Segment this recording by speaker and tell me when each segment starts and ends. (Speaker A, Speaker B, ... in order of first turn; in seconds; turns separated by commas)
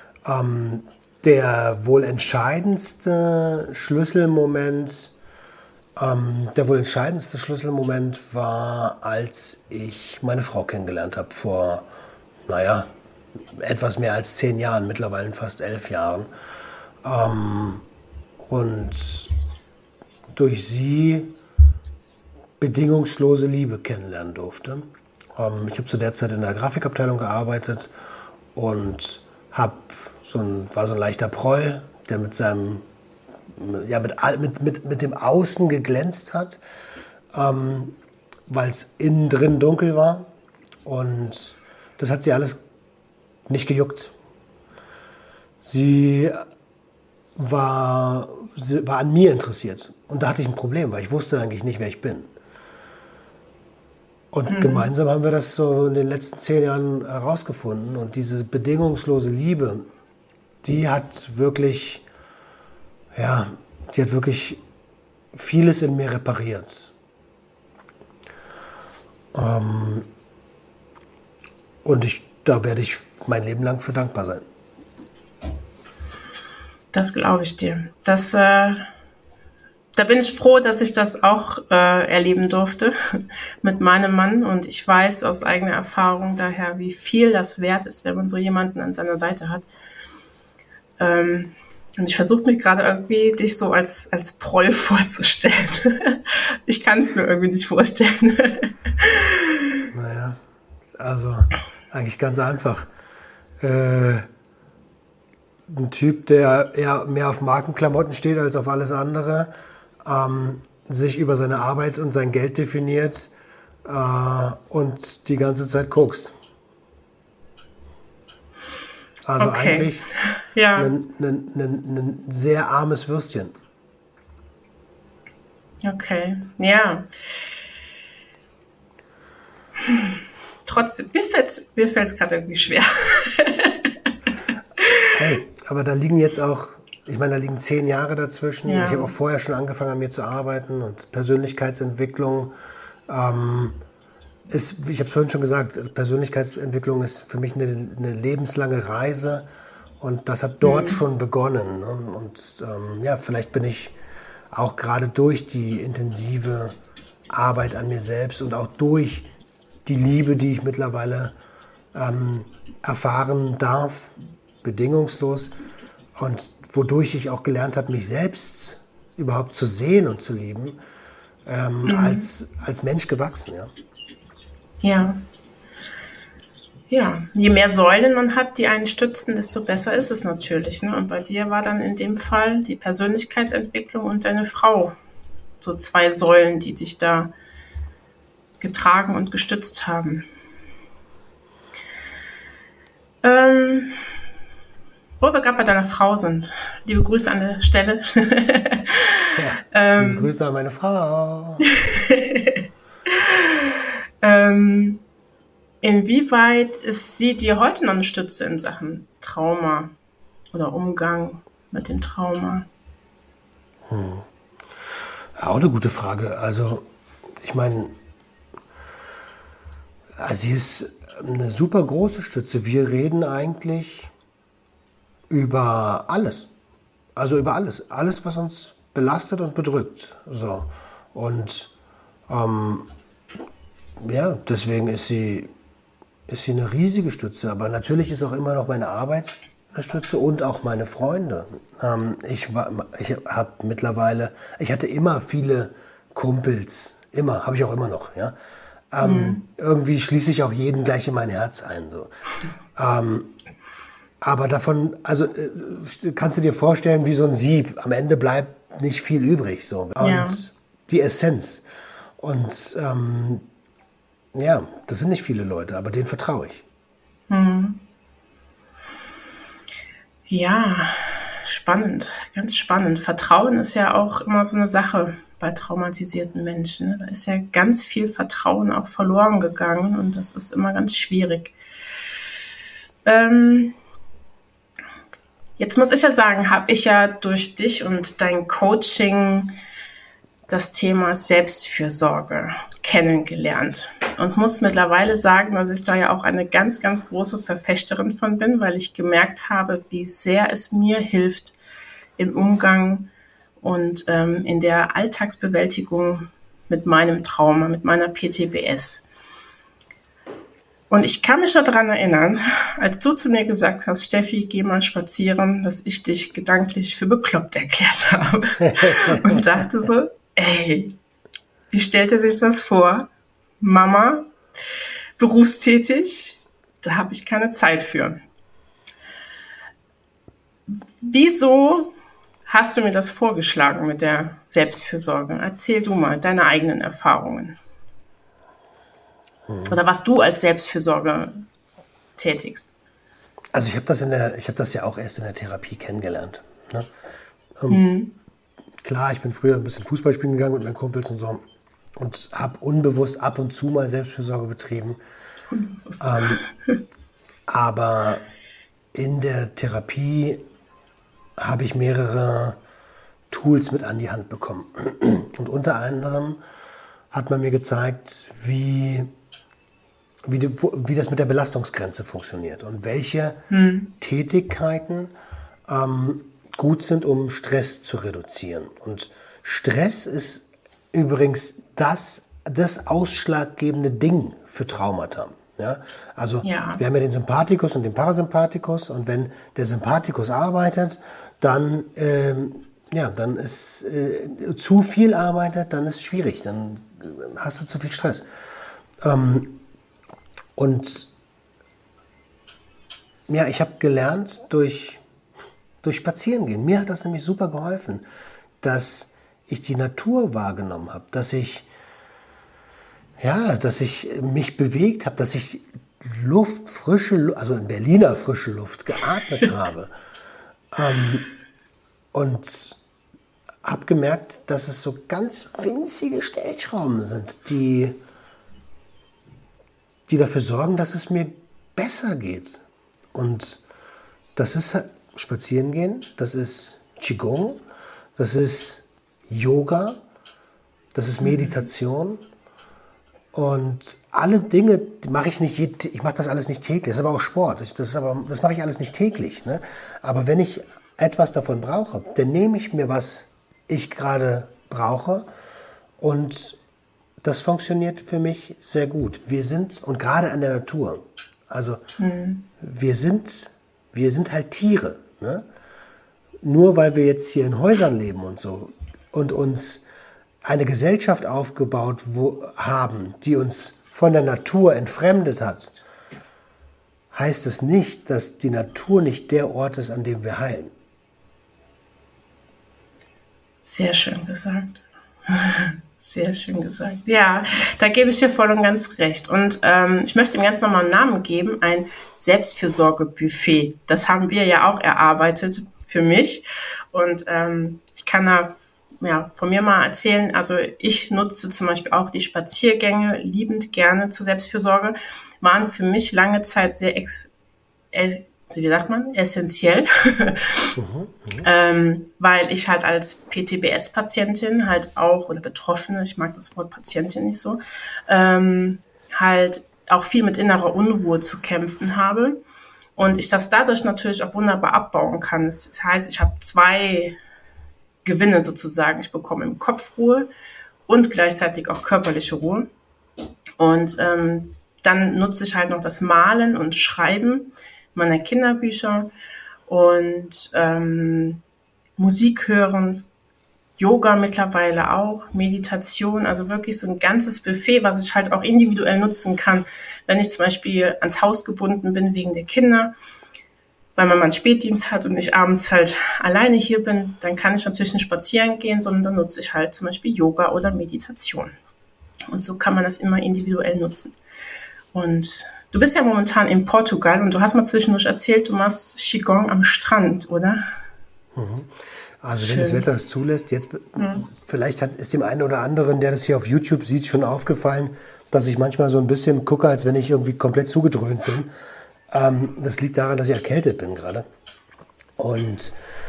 Speaker A: 0.2-5.1, Speaker A: 6.0-11.9, Speaker A: 12.5-12.9, Speaker A: 13.5-16.3, Speaker A: 17.0-17.8, Speaker A: 18.4-19.3, Speaker A: 20.3-21.4, Speaker A: 22.6-27.9, Speaker A: 28.5-32.8, Speaker A: 33.6-36.6, Speaker A: 37.3-38.0, Speaker A: 38.5-40.3, Speaker A: 40.8-42.6, Speaker A: 43.5-44.1, Speaker A: 45.6-46.5, Speaker A: 47.4-52.3, Speaker A: 54.3-59.9, Speaker B: 54.5-54.9, Speaker A: 60.6-62.0, Speaker A: 63.1-64.6, Speaker A: 65.3-66.9, Speaker A: 69.3-70.1, Speaker A: 71.8-74.4, Speaker B: 76.9-78.9, Speaker B: 79.9-89.7, Speaker B: 91.0-99.8, Speaker A: 99.9-100.4, Speaker A: 101.0-102.9, Speaker A: 103.6-104.3, Speaker A: 105.7-109.5, Speaker A: 110.0-113.3, Speaker A: 113.8-116.3, Speaker A: 119.2-120.1, Speaker B: 119.4-120.9, Speaker A: 120.8-123.5, Speaker B: 125.8-127.5, Speaker B: 129.8-133.9, Speaker B: 134.8-135.1, Speaker A: 135.1-142.5, Speaker B: 138.6-139.1, Speaker A: 143.1-143.8, Speaker A: 144.5-149.4, Speaker A: 150.0-153.9, Speaker B: 150.6-151.0, Speaker A: 154.5-156.8, Speaker A: 157.3-159.3, Speaker A: 159.8-161.3, Speaker A: 161.9-165.5, Speaker A: 166.2-170.8, Speaker A: 171.4-173.7, Speaker B: 171.8-172.3, Speaker B: 174.8-175.2, Speaker B: 176.9-185.0, Speaker B: 185.6-187.3, Speaker B: 188.6-190.3, Speaker B: 193.2-194.0, Speaker B: 195.2-200.3, Speaker A: 199.3-201.7, Speaker B: 201.8-205.0, Speaker B: 205.8-209.9, Speaker B: 210.5-212.7, Speaker A: 213.9-214.2, Speaker A: 215.4-216.8, Speaker A: 217.4-217.9, Speaker A: 220.2-224.1, Speaker A: 225.3-226.5, Speaker A: 227.2-231.7, Speaker A: 232.3-232.9, Speaker A: 234.0-235.5, Speaker A: 236.3-248.3, Speaker A: 248.9-252.1, Speaker B: 249.0-249.4, Speaker A: 252.7-253.3, Speaker A: 254.2-261.6, Speaker B: 260.0-260.4, Speaker A: 262.2-263.4, Speaker A: 264.3-266.6, Speaker B: 267.3-267.8, Speaker B: 270.3-281.5, Speaker B: 283.0-283.8, Speaker B: 285.6-289.5, Speaker B: 290.5-301.5, Speaker B: 302.2-303.1, Speaker B: 303.6-309.0, Speaker B: 310.9-320.9, Speaker A: 318.6-319.4, Speaker B: 321.7-323.1, Speaker B: 323.6-324.3, Speaker B: 325.2-328.2, Speaker B: 330.7-331.9, Speaker B: 332.5-337.6, Speaker A: 339.5-339.8, Speaker B: 339.7-341.4, Speaker B: 342.1-342.7, Speaker A: 343.5-346.9, Speaker B: 347.7-348.1, Speaker A: 348.8-351.4, Speaker A: 352.0-355.0, Speaker B: 355.5-356.8, Speaker A: 356.0-356.4, Speaker A: 357.5-358.2, Speaker A: 358.9-360.4, Speaker A: 361.4-362.6, Speaker A: 363.3-366.4, Speaker A: 367.1-369.1, Speaker A: 370.2-373.4, Speaker B: 373.5-373.9, Speaker A: 374.0-375.1, Speaker A: 375.7-398.3, Speaker B: 386.4-386.8, Speaker A: 399.0-399.6, Speaker A: 400.6-401.1, Speaker A: 403.3-405.0, Speaker A: 405.8-408.0, Speaker A: 408.6-411.7, Speaker A: 413.2-419.9, Speaker A: 420.7-421.3, Speaker A: 422.1-422.8, Speaker A: 423.6-428.0, Speaker A: 430.1-432.6, Speaker A: 433.1-433.6, Speaker A: 434.4-437.6, Speaker A: 438.1-440.0, Speaker A: 440.9-442.2, Speaker B: 441.2-441.5, Speaker A: 443.3-455.3, Speaker A: 456.0-456.6, Speaker A: 457.2-461.8, Speaker B: 462.0-462.4, Speaker A: 462.6-465.4, Speaker A: 466.4-469.8, Speaker A: 470.4-475.7, Speaker A: 477.1-480.7, Speaker B: 483.6-507.3, Speaker B: 507.9-510.7, Speaker A: 510.8-511.5, Speaker B: 511.4-522.4, Speaker B: 523.0-527.2, Speaker B: 528.0-530.3, Speaker B: 530.9-532.7, Speaker B: 533.6-539.1, Speaker B: 539.7-541.4, Speaker B: 542.0-543.0, Speaker B: 543.8-552.9, Speaker B: 554.0-561.5, Speaker B: 562.3-564.1, Speaker B: 564.9-570.7, Speaker A: 571.3-581.5, Speaker B: 572.4-572.9, Speaker B: 574.0-574.2, Speaker A: 582.1-584.3, Speaker A: 585.2-585.8